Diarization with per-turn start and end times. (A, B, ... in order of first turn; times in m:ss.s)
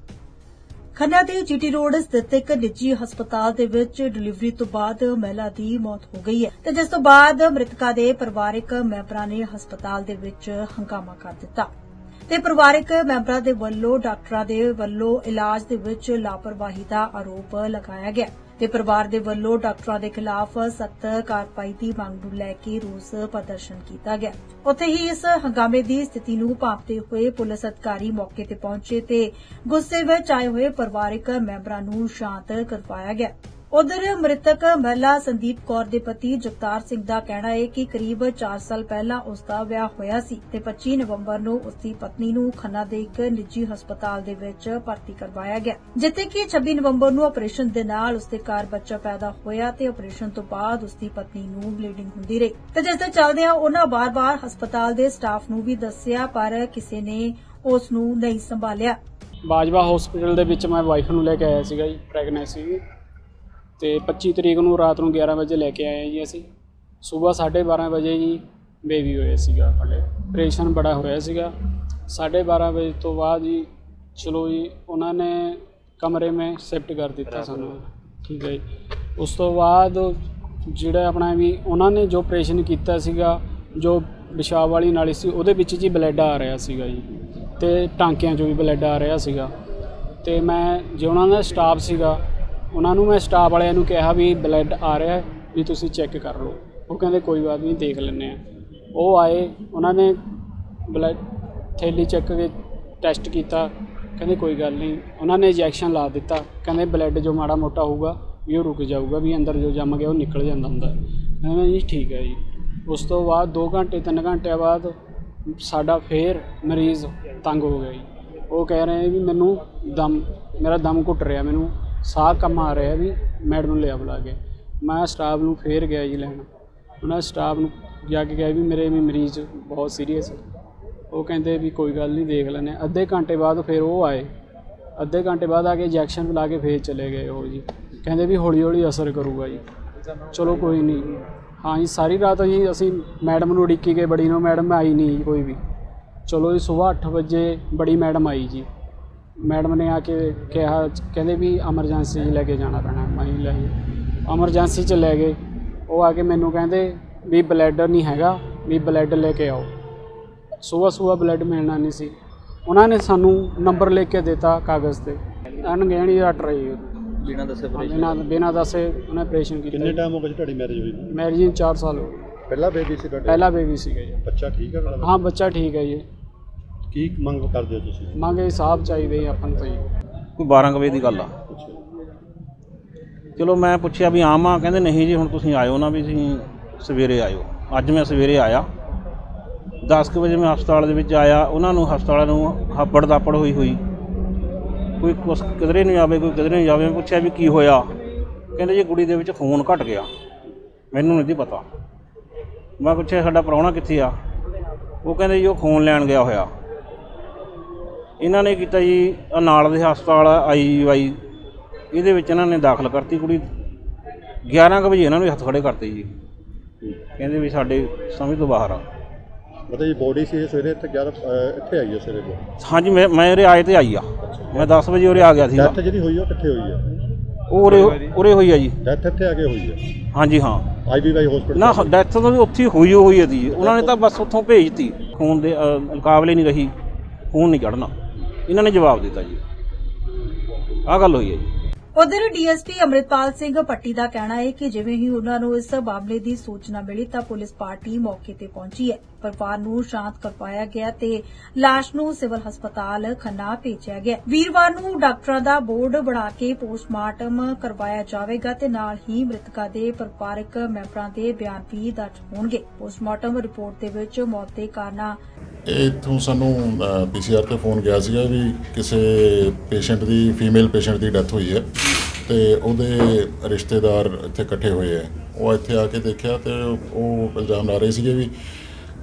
0:00.9-0:11.7 A
0:12.3-0:59.0 A
0:59.5-1:02.8 B
1:03.8-1:06.5 B
1:07.0-1:11.5 B
1:12.1-1:18.6 B
1:19.2-1:29.5 B
1:30.2-1:38.4 B
1:38.9-1:40.2 B
1:40.9-1:41.2 B
1:41.8-1:55.0 B
1:55.5-2:06.5 B
2:07.0-2:10.4 B
2:11.1-2:14.3 B
2:15.0-2:19.6 B
2:20.3-2:25.6 B
2:26.3-2:28.7 B
2:29.4-2:33.8 B
2:34.3-2:39.7 B
2:40.6-2:42.1 B
2:42.6-2:50.0 B
2:49.7-2:51.1 C
2:51.1-2:52.2 B
2:52.5-2:53.6 C
2:53.2-2:54.2 B
2:54.2-2:55.2 C
2:55.0-2:56.0 B
2:56.9-2:58.1 C
2:58.1-2:59.9 B
3:00.4-3:01.3 D
3:01.5-3:01.8 C
3:03.4-3:08.7 D
3:09.8-3:13.8 D
3:15.0-3:17.9 D
3:18.6-3:20.1 D
3:20.9-3:21.6 D
3:22.8-3:24.1 D
3:25.0-3:26.5 D
3:28.2-3:31.2 D
3:31.9-3:33.4 D
3:34.4-3:36.1 D
3:37.2-3:38.8 D
3:39.7-3:42.4 C
3:42.6-3:45.8 D
3:44.2-3:44.8 C
3:45.5-3:46.9 C
3:47.5-3:48.7 D
3:48.8-3:49.8 C
3:50.1-3:50.7 D
3:50.8-3:52.0 C
3:51.5-3:56.7 D
3:53.5-3:53.9 C
3:57.3-3:57.9 D
3:58.5-3:59.4 D
4:00.9-4:01.5 D
4:01.9-4:25.2 A
4:25.6-4:38.3 E